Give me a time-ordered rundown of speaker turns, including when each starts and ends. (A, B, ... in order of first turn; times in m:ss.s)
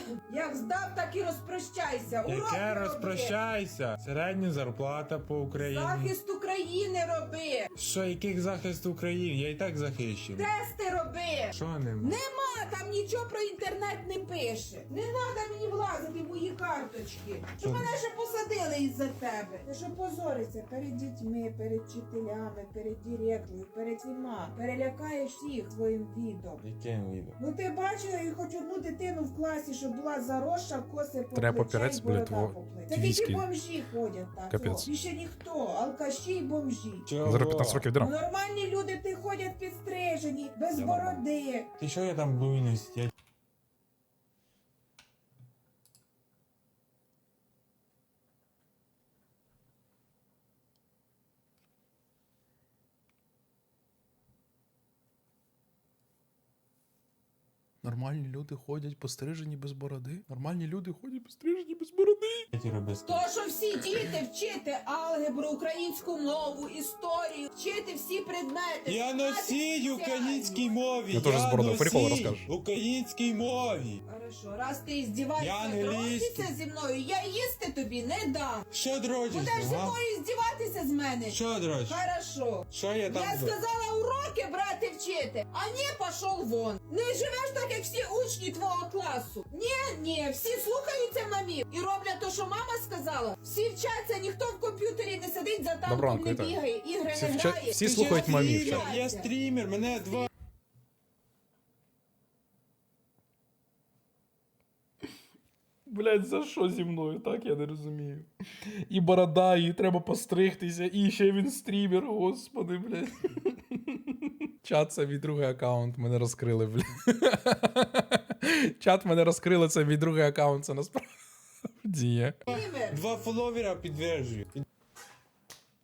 0:00.2-0:03.3 A
0:02.2-0:06.1 B
0:05.5-0:07.7 A
0:07.8-0:10.5 B
0:10.4-0:26.6 A
0:11.5-0:12.2 B
0:17.6-0:17.9 B
0:26.6-0:27.4 B
0:27.4-0:37.1 A
0:31.3-0:33.4 C
0:34.5-0:34.9 C
0:37.0-0:37.9 B
0:37.2-0:38.1 C
0:38.0-0:41.7 A
0:40.7-0:41.2 C
0:41.8-0:43.1 B
0:57.8-1:02.4 C
1:02.5-1:03.2 B
1:03.0-1:10.7 A
1:08.8-1:14.0 B
1:11.1-1:12.5 C
1:14.1-1:18.7 A
1:15.4-1:16.5 B
1:18.7-1:20.0 B
1:19.3-1:39.3 A
1:21.3-1:22.0 B
1:22.7-1:23.6 B
1:35.8-1:36.6 C
1:37.1-1:38.9 C
1:37.8-1:40.3 B
1:39.9-1:40.2 A
1:45.9-1:54.0 C
1:54.6-2:01.1 C
2:01.8-2:02.5 C
2:02.5-2:04.6 B
2:02.5-2:03.0 A